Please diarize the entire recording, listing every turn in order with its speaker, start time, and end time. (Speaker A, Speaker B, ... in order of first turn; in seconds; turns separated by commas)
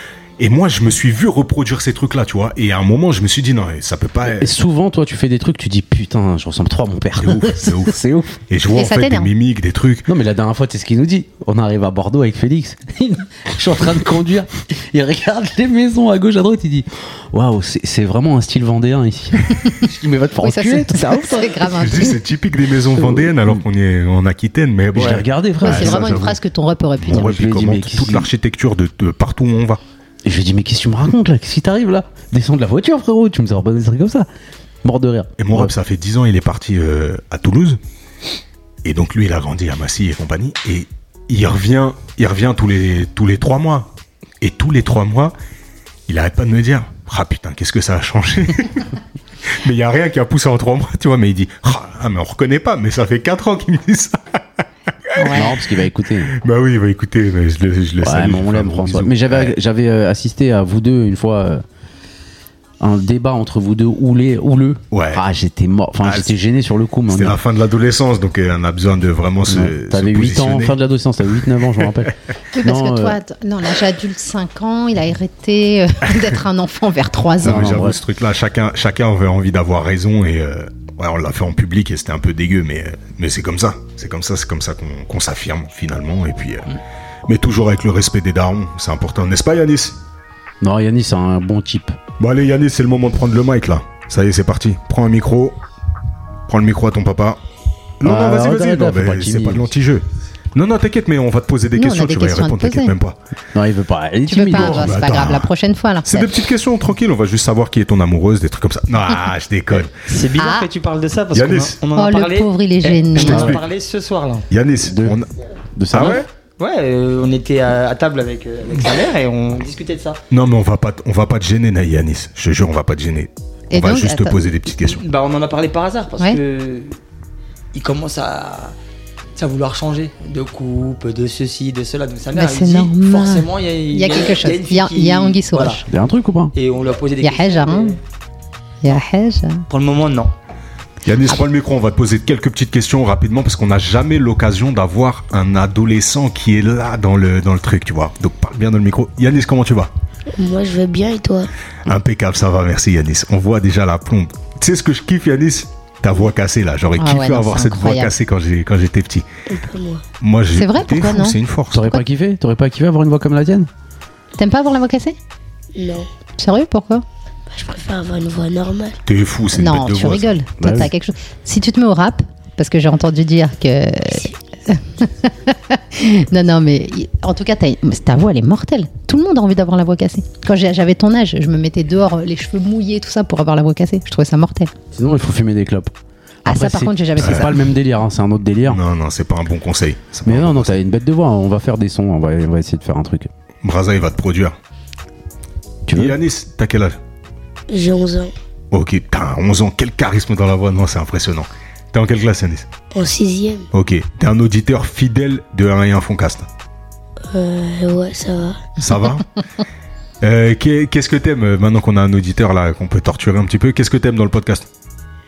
Speaker A: 0.4-4.5, Speaker B: 4.2-8.4, Speaker A: 7.2-8.0, Speaker A: 8.5-10.1, Speaker C: 8.7-9.3, Speaker B: 10.1-21.5, Speaker C: 20.4-22.2, Speaker A: 21.6-26.4, Speaker B: 23.0-23.6, Speaker B: 24.9-26.4, Speaker C: 25.6-27.3, Speaker A: 27.0-29.8, Speaker B: 27.1-28.3, Speaker B: 30.2-34.3, Speaker B: 34.8-35.7, Speaker A: 35.4-37.8, Speaker A: 38.8-43.9, Speaker A: 44.4-45.3, Speaker A: 46.1-48.9, Speaker A: 49.5-54.4, Speaker A: 55.1-55.5, Speaker C: 55.1-55.5, Speaker B: 55.3-56.4, Speaker A: 56.3-59.5, Speaker B: 58.0-61.6, Speaker B: 62.8-67.4, Speaker A: 64.9-65.2, Speaker A: 66.0-66.3, Speaker A: 67.1-70.8, Speaker B: 69.5-73.2, Speaker C: 72.5-77.9, Speaker B: 77.4-78.0, Speaker A: 77.4-90.0, Speaker B: 90.6-92.0, Speaker A: 92.2-95.6, Speaker A: 96.5-97.4, Speaker A: 98.0-103.2, Speaker B: 98.0-99.7, Speaker C: 101.8-102.9, Speaker B: 103.5-105.0, Speaker C: 104.3-106.3, Speaker A: 104.5-105.5, Speaker A: 106.0-109.9, Speaker D: 110.1-114.5, Speaker C: 110.4-110.7, Speaker A: 111.3-111.8, Speaker C: 111.9-113.5, Speaker A: 113.1-113.6, Speaker B: 113.3-113.6, Speaker A: 114.5-115.3, Speaker B: 114.8-115.2, Speaker B: 115.8-116.2, Speaker A: 115.9-116.3, Speaker D: 116.6-120.2, Speaker A: 120.3-125.0, Speaker C: 123.7-124.4, Speaker D: 124.8-127.0, Speaker D: 127.7-128.8, Speaker D: 129.4-135.8, Speaker C: 132.3-135.8, Speaker B: 135.9-136.5, Speaker D: 136.5-138.0, Speaker C: 137.2-138.0, Speaker C: 138.8-139.7, Speaker D: 139.7-140.3, Speaker A: 141.0-149.9, Speaker E: 150.3-151.5, Speaker A: 151.8-159.3, Speaker C: 157.0-158.1, Speaker E: 159.5-160.0, Speaker A: 160.2-161.8, Speaker C: 160.6-162.0, Speaker B: 161.7-163.7, Speaker C: 164.4-165.2, Speaker E: 165.7-166.1, Speaker C: 166.4-167.0, Speaker E: 167.5-169.0, Speaker A: 169.1-170.4, Speaker C: 169.6-184.7, Speaker B: 170.6-170.9, Speaker B: 184.9-185.9, Speaker B: 186.4-188.8, Speaker C: 186.5-187.6, Speaker A: 187.2-187.5, Speaker A: 188.7-190.8, Speaker B: 190.3-193.3, Speaker A: 193.6-194.6, Speaker B: 195.9-196.2, Speaker A: 195.9-197.0, Speaker E: 197.7-198.3, Speaker A: 198.7-202.7, Speaker E: 202.9-203.7, Speaker A: 203.7-206.5, Speaker E: 207.3-208.8, Speaker A: 208.8-209.3, Speaker A: 210.2-214.7